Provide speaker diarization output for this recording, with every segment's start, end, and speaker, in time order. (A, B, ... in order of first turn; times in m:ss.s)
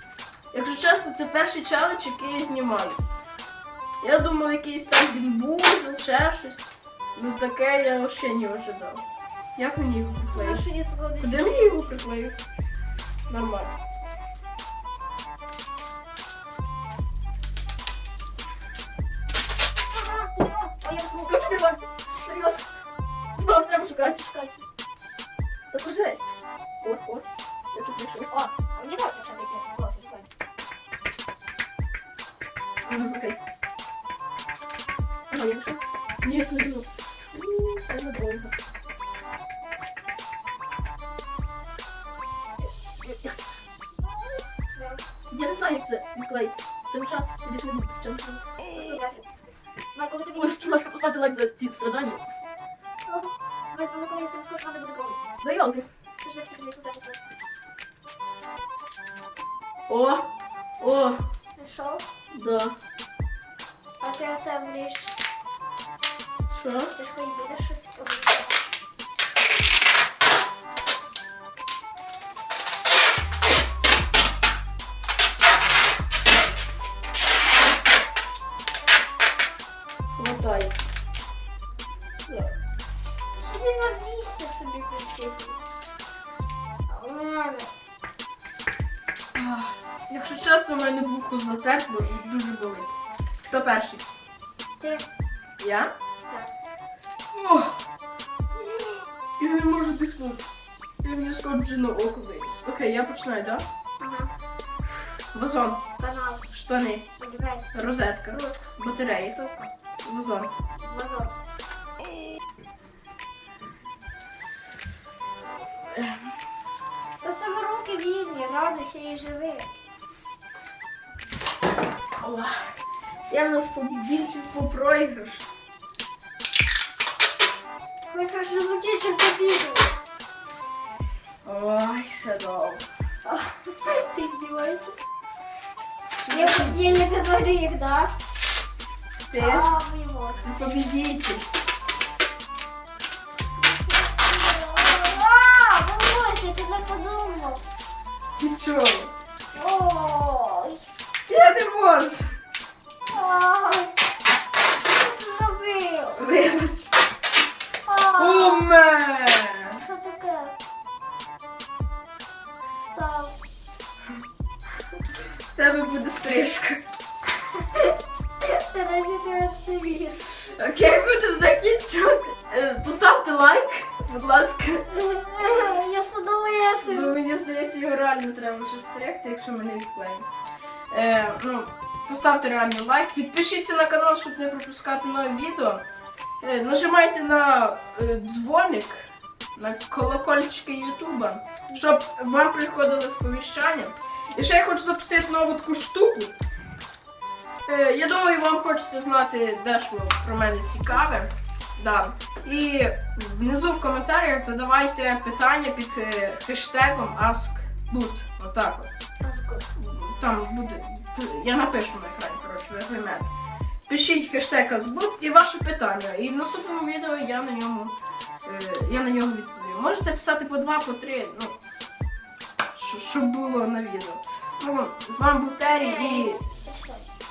0:00.5-0:03.0 A
0:04.0-0:09.0 A
0:09.6-0:10.6 A
0:10.3-0:11.9 B
0:11.2-0:12.4 A
0:13.3-0:13.7 A
0:19.9-0:21.6 B
0:21.2-0:22.6 A
0:23.4-0:24.3 A
0:23.9-0:24.6 B
0:25.7-0:28.3 A
0:28.3-0:30.3 B
0:32.9-0:33.4 A
0:35.3-0:38.5 A
0:43.0-0:43.4 A
0:44.0-0:45.0 B
0:45.3-0:48.4 A
0:48.7-0:49.3 B
0:49.9-0:50.8 B
0:50.3-0:52.2 A
0:53.1-0:55.2 B
0:55.4-0:55.9 A
0:56.2-0:57.2 B
0:59.9-1:00.3 A
1:00.8-1:01.2 A
1:01.6-1:02.0 B
1:02.3-1:02.8 A
1:04.0-1:05.2 B
1:06.5-1:06.9 A
1:06.9-1:08.6 B
1:20.1-1:20.7 A
1:22.3-1:22.5 A
1:23.4-1:25.6 B
1:26.9-1:27.7 B
1:29.3-1:32.9 A
1:33.5-1:34.0 A
1:34.8-1:35.1 B
1:35.6-1:35.9 A
1:37.3-1:37.8 A
1:38.6-1:40.5 A
1:41.0-1:43.6 A
1:44.0-1:44.3 B
1:45.3-1:45.8 A
1:46.0-1:46.4 B
1:46.5-1:47.1 A
1:47.2-1:47.7 B
1:47.7-1:50.5 A
1:50.8-1:51.3 B
1:55.8-1:56.3 A
1:57.2-1:59.7 B
2:02.2-2:02.8 A
2:03.3-2:05.5 A
2:08.1-2:10.0 B
2:11.4-2:12.8 A
2:13.2-2:15.0 B
2:16.2-2:17.1 A
2:16.3-2:18.1 B
2:19.3-2:19.7 A
2:19.4-2:20.4 B
2:20.4-2:21.4 A
2:23.8-2:27.6 B
2:28.4-2:29.1 A
2:29.5-2:30.8 B
2:31.3-2:32.4 A
2:33.1-2:33.9 B
2:34.9-2:36.4 B
2:36.2-2:36.9 A
2:37.8-2:38.7 B
2:38.2-2:39.8 A
2:39.8-2:40.6 B
2:42.8-2:43.4 B
2:45.5-2:46.8 A
2:47.6-2:50.2 B
2:50.4-2:54.9 A
2:54.9-2:57.2 B
2:55.4-2:55.7 A
2:56.8-3:00.3 A
3:00.9-3:05.8 A
3:06.4-3:16.4 A
3:17.6-3:28.9 A
3:29.2-3:29.7 B
3:29.8-3:33.3 A
3:33.9-3:41.6 A
3:42.7-3:46.4 A
3:45.7-3:47.0 B